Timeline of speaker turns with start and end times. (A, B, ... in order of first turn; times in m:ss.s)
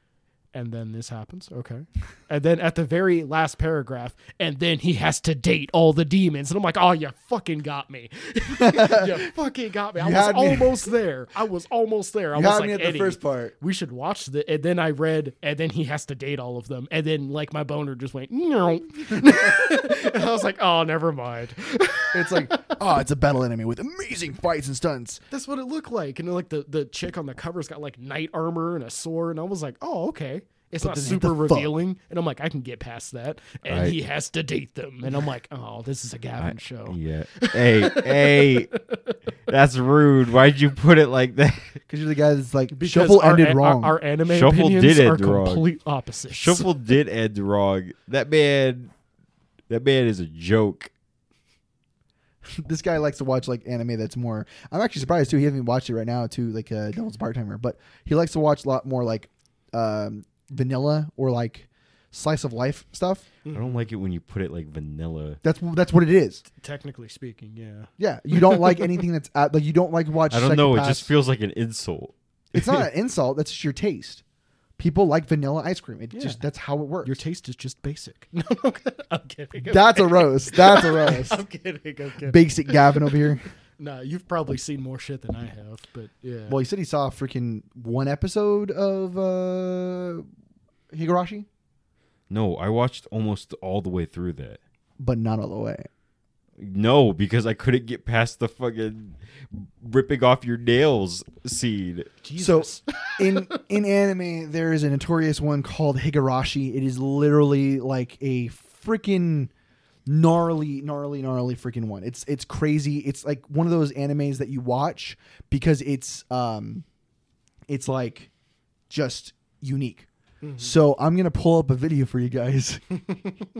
0:00.5-0:22.8 A
0:08.6-0:09.2 B
0:10.0-0:10.8 B
0:12.3-0:13.5 B
0:22.1-0:25.2 B
0:25.3-0:39.2 A
0:30.8-0:31.7 B
0:33.7-0:34.0 C
0:36.4-0:38.7 C
0:39.5-0:41.8 C
0:41.9-0:44.0 B
0:42.8-0:46.7 A
0:44.3-0:45.6 C
0:46.3-0:48.9 C
0:49.7-0:50.9 C
0:52.4-1:03.2 B
1:03.5-1:03.9 A
1:03.5-1:05.4 C
1:05.4-1:06.4 B
1:06.6-1:09.0 A
1:08.0-1:11.1 B
1:10.3-1:12.8 C
1:12.5-1:14.2 B
1:14.8-1:17.2 B
1:16.1-1:16.4 A
1:17.0-1:26.6 A
1:19.7-1:21.4 B
1:22.2-1:23.5 B
1:26.5-1:30.2 B
1:30.9-1:31.5 B
1:32.3-1:34.6 C
1:35.0-1:35.9 B
1:36.6-1:42.2 C
1:42.2-1:43.6 A
1:42.4-1:49.5 B
1:50.1-1:56.8 B
1:57.7-1:58.3 B
1:58.9-2:00.1 B
2:00.4-2:00.8 A
2:00.6-2:03.0 B